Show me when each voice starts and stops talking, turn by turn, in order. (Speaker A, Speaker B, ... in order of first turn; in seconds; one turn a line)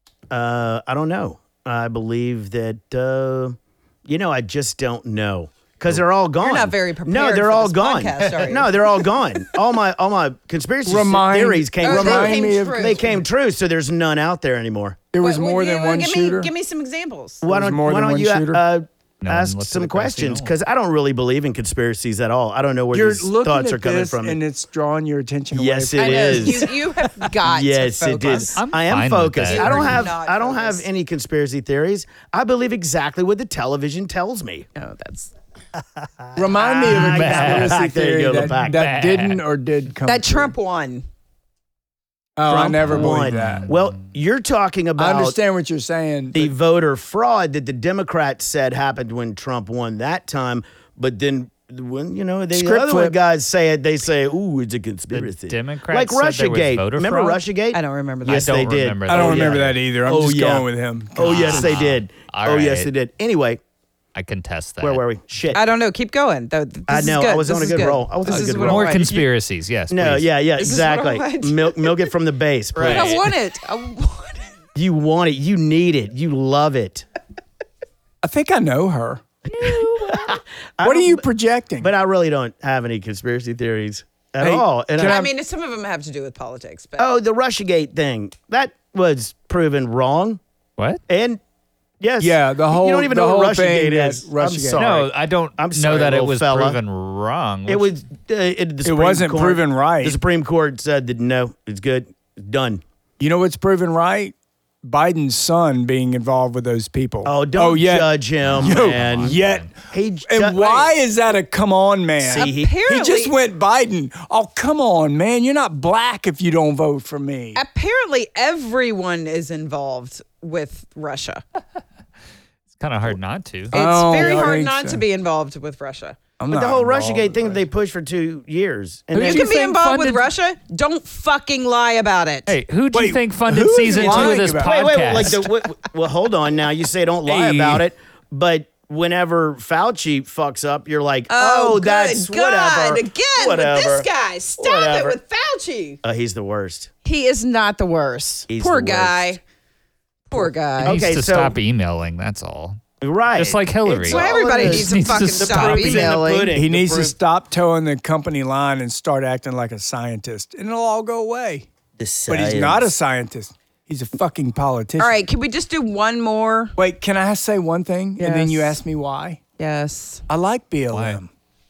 Speaker A: 0.3-15.0
Speaker B: 6.4-9.0
Speaker C: 10.8-13.2
Speaker B: 11.8-13.0
Speaker C: 15.1-16.5
Speaker B: 15.2-17.4
Speaker A: 17.4-24.4
Speaker C: 17.4-18.6
Speaker D: 19.2-20.5
Speaker C: 22.9-26.7
Speaker A: 25.5-26.7
Speaker B: 26.0-28.6
Speaker A: 27.4-34.7
Speaker D: 28.5-30.1
Speaker B: 29.5-30.9
Speaker B: 34.8-35.3
Speaker C: 36.4-40.5
Speaker A: 36.5-38.9
Speaker D: 36.9-37.8
Speaker D: 38.4-39.4
Speaker B: 40.0-41.0
Speaker C: 42.4-43.7
Speaker A: 42.5-45.4
Speaker D: 42.9-44.0
Speaker C: 45.0-46.5
Speaker A: 46.3-63.6
Speaker C: 52.5-53.1
Speaker D: 55.1-57.4
Speaker B: 57.7-58.6
Speaker D: 58.2-59.8
Speaker C: 59.1-61.6
Speaker D: 61.2-62.9
Speaker D: 64.1-65.0
Speaker A: 64.8-65.6
Speaker B: 65.5-69.1
Speaker A: 66.9-69.2
Speaker D: 68.3-70.3
Speaker A: 69.9-73.2
Speaker B: 70.6-72.1
Speaker D: 72.8-73.3
Speaker B: 72.8-74.5
Speaker A: 74.7-77.0
Speaker C: 78.2-79.2
Speaker A: 79.4-81.2
Speaker B: 79.5-80.3
Speaker C: 80.8-81.9
Speaker A: 81.8-85.3
Speaker C: 84.4-85.3
Speaker B: 85.0-87.1
Speaker A: 87.0-90.4
Speaker A: 91.1-91.4
Speaker A: 92.0-96.8
Speaker C: 92.2-94.8
Speaker D: 94.8-97.9
Speaker A: 97.7-102.8
Speaker C: 98.8-100.2
Speaker C: 103.2-109.7
Speaker A: 107.2-110.9
Speaker D: 108.4-109.7
Speaker C: 110.2-117.6
Speaker A: 112.2-112.7
Speaker B: 112.3-113.3
Speaker B: 117.5-121.4
Speaker D: 122.8-123.7
Speaker C: 123.7-125.0
Speaker B: 123.7-126.2
Speaker C: 126.4-127.6
Speaker A: 126.5-129.5
Speaker D: 129.1-130.3
Speaker B: 129.2-132.5
Speaker D: 132.5-135.5
Speaker C: 132.9-134.8
Speaker A: 133.9-145.2
Speaker D: 137.2-137.8
Speaker B: 141.3-146.0
Speaker A: 146.0-146.9
Speaker B: 147.0-149.4
Speaker A: 148.5-149.2
Speaker B: 150.3-151.0
Speaker A: 150.3-151.6
Speaker D: 150.8-152.8
Speaker A: 153.0-157.2
Speaker D: 153.3-156.2
Speaker B: 153.9-156.5
Speaker C: 156.5-161.7
Speaker A: 162.0-162.9
Speaker C: 162.3-165.2
Speaker B: 165.0-166.7
Speaker C: 166.8-169.4
Speaker B: 168.2-168.8
Speaker B: 169.6-170.2
Speaker C: 170.3-171.3
Speaker D: 170.9-171.2